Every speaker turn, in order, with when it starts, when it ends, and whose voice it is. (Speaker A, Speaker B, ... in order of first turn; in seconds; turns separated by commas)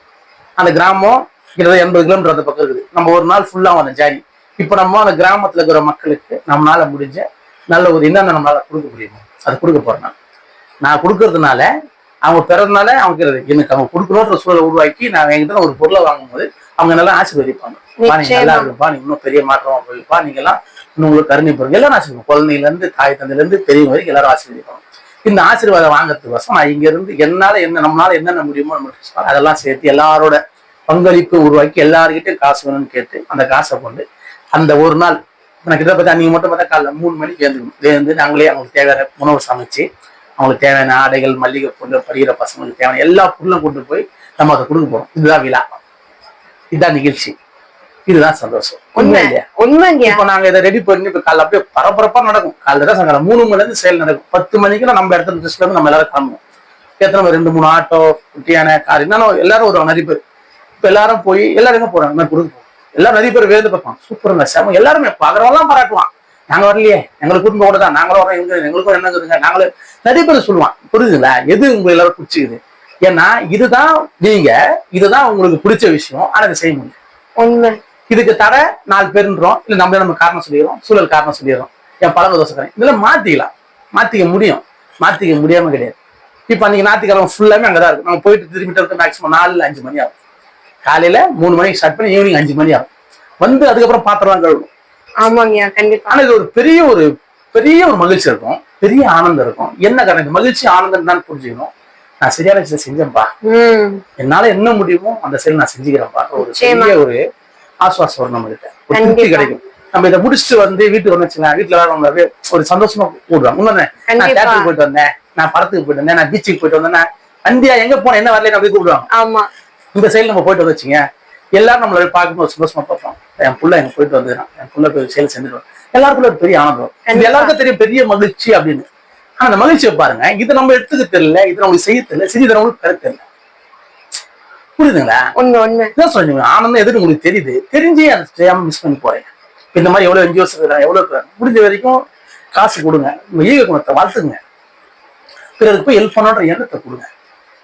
Speaker A: 0.6-10.1, Speaker A: 10.8-11.7, Speaker A: 12.2-34.0, Speaker B: 18.0-18.7, Speaker A: 34.5-39.9, Speaker A: 40.4-45.8, Speaker A: 46.7-47.3, Speaker A: 48.1-49.4, Speaker B: 49.0-50.2, Speaker A: 50.0-56.4, Speaker A: 57.0-60.2, Speaker A: 60.8-77.0, Speaker B: 77.4-77.8, Speaker A: 78.1-86.0, Speaker A: 86.5-90.1, Speaker A: 90.8-92.9, Speaker A: 93.4-94.7, Speaker B: 95.2-96.2, Speaker A: 96.1-101.7, Speaker A: 102.2-103.3, Speaker B: 103.4-104.0, Speaker A: 104.2-107.2, Speaker B: 106.4-107.0, Speaker A: 107.8-119.1, Speaker B: 108.9-109.5, Speaker B: 114.1-114.7, Speaker B: 119.1-119.5, Speaker A: 119.9-121.0, Speaker A: 121.6-128.9, Speaker B: 127.1-127.5, Speaker A: 129.4-133.2, Speaker A: 134.8-135.3, Speaker B: 135.3-135.9, Speaker A: 135.9-142.0, Speaker A: 142.5-144.4, Speaker A: 145.6-147.1